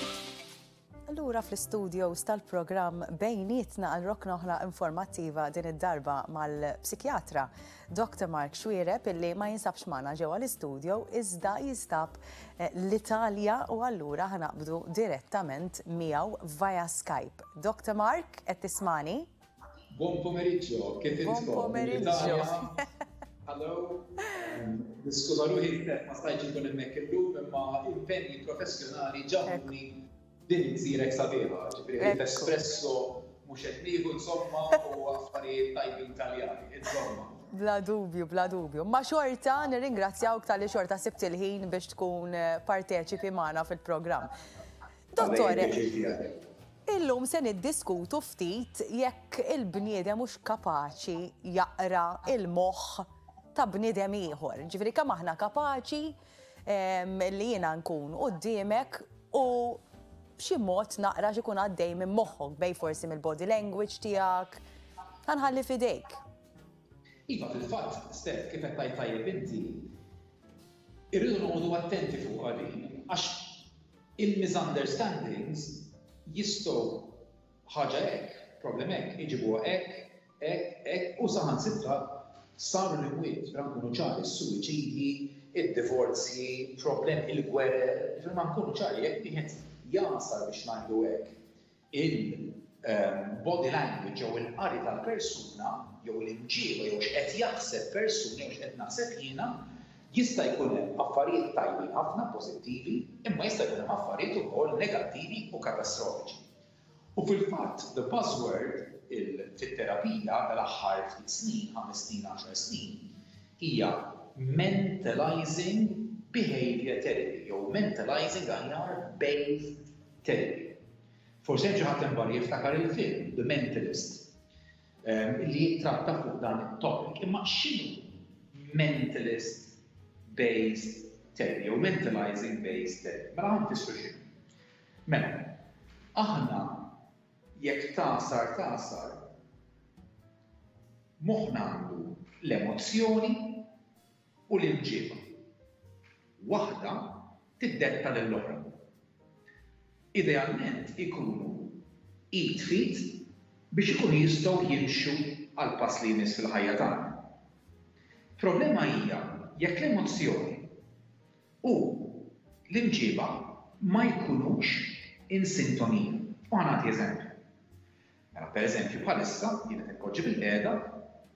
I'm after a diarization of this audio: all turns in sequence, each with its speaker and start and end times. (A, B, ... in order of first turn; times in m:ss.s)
0:01.1-0:19.3 A
0:19.9-0:22.8 B
0:21.2-0:22.8 A
0:23.5-0:37.4 B
0:32.0-0:32.5 A
0:37.5-0:44.3 A
0:45.1-0:45.8 A
0:45.2-0:46.4 B
0:46.9-0:59.8 A
1:00.4-1:04.6 A
1:05.3-1:06.2 A
1:07.3-1:09.9 B
1:11.1-1:31.4 B
1:31.9-1:39.6 B
1:40.1-1:46.4 B
1:47.2-1:53.1 B
1:53.6-2:00.8 B
2:01.4-2:04.3 B
2:05.0-2:14.2 B
2:15.1-2:15.6 B
2:16.2-2:16.9 B
2:17.6-2:19.2 B
2:21.2-2:23.7 B
2:24.5-2:25.3 B
2:26.4-2:28.8 B
2:30.1-2:37.3 B
2:38.4-2:40.7 B
2:41.6-2:47.4 B
2:48.3-2:51.1 B